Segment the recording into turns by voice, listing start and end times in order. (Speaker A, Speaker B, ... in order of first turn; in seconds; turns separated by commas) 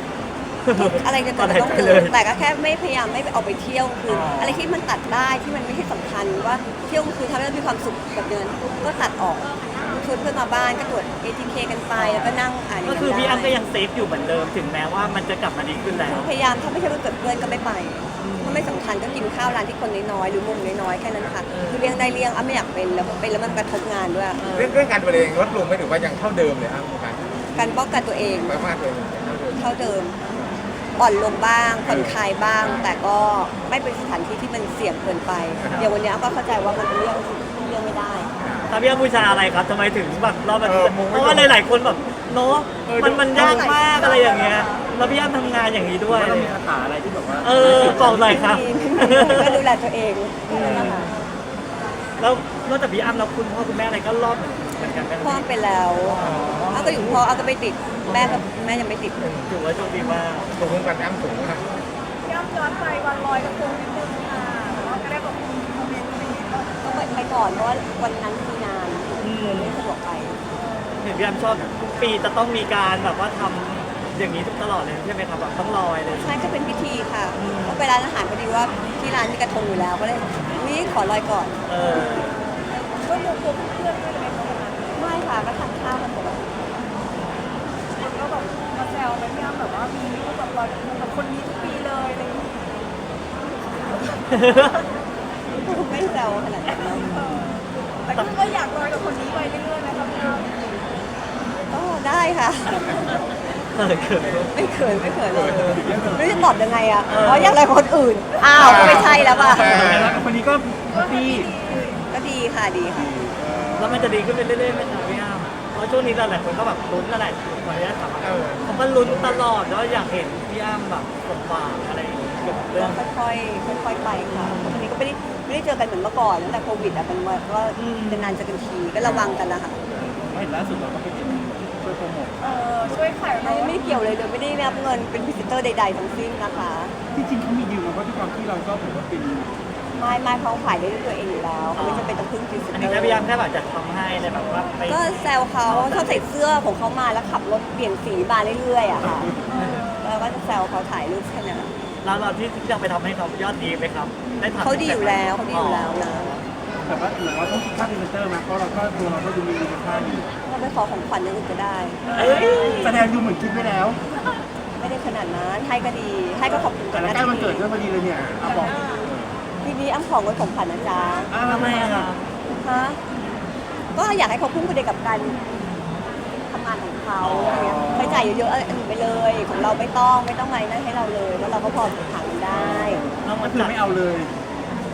Speaker A: 0.6-2.1, Speaker B: 0.8-13.6, Speaker C: 1.6-1.9, Speaker A: 4.1-4.6, Speaker A: 11.9-16.3, Speaker B: 16.1-24.4, Speaker A: 18.2-18.8, Speaker A: 21.5-22.0, Speaker A: 24.4-24.8, Speaker C: 24.5-29.8, Speaker B: 27.6-28.6, Speaker B: 29.6-30.2, Speaker B: 31.0-38.3, Speaker C: 31.9-32.9, Speaker C: 35.6-35.9, Speaker C: 38.4-38.7, Speaker A: 38.7-46.6, Speaker C: 40.6-41.5, Speaker C: 42.9-43.7, Speaker B: 43.3-44.7, Speaker D: 46.1-48.0, Speaker A: 47.4-49.6, Speaker B: 47.6-51.1, Speaker A: 50.5-51.1, Speaker C: 50.6-50.9, Speaker A: 52.2-55.5, Speaker B: 55.2-59.2, Speaker A: 56.0-57.2, Speaker C: 56.2-56.6, Speaker A: 58.1-58.4, Speaker A: 59.4-60.5, Speaker C: 60.6-61.7, Speaker E: 62.3-66.8, Speaker B: 66.8-70.4, Speaker A: 69.2-69.7, Speaker A: 71.0-76.5, Speaker B: 76.2-81.6, Speaker A: 77.4-77.8, Speaker A: 81.7-82.4, Speaker E: 82.7-85.2, Speaker B: 85.0-86.5, Speaker E: 88.0-92.8, Speaker A: 94.3-94.7, Speaker B: 95.6-97.2, Speaker A: 97.0-97.6, Speaker E: 98.1-100.5, Speaker B: 101.7-103.2, Speaker A: 103.7-104.6, Speaker B: 104.5-109.8, Speaker C: 105.3-105.7, Speaker D: 105.8-106.6, Speaker A: 107.1-107.6, Speaker C: 108.6-110.3, Speaker A: 108.9-109.6, Speaker D: 109.0-111.5, Speaker E: 110.9-112.0, Speaker B: 112.1-113.2, Speaker C: 113.2-115.1, Speaker A: 113.8-123.0, Speaker C: 118.2-119.4, Speaker B: 122.8-129.8, Speaker A: 124.3-124.8, Speaker A: 127.8-128.3, Speaker A: 129.0-129.4, Speaker D: 130.0-133.1, Speaker E: 132.4-133.8, Speaker B: 133.4-137.0, Speaker D: 137.1-139.5, Speaker B: 139.9-143.3, Speaker A: 141.8-145.0, Speaker B: 144.9-149.3, Speaker A: 145.6-146.2, Speaker E: 149.5-150.1, Speaker B: 150.0-151.7, Speaker A: 152.0-157.0, Speaker B: 154.6-156.4, Speaker D: 156.9-160.3, Speaker B: 160.4-162.2, Speaker A: 162.1-163.1, Speaker D: 162.1-164.0, Speaker B: 164.8-167.7, Speaker D: 166.9-168.9, Speaker C: 169.0-169.3, Speaker B: 169.6-171.3, Speaker D: 171.3-172.1, Speaker A: 171.4-172.2, Speaker B: 172.5-173.0, Speaker B: 173.9-175.4, Speaker B: 176.5-183.1, Speaker A: 177.2-177.8, Speaker D: 177.6-178.2, Speaker D: 182.5-184.3, Speaker A: 183.2-183.8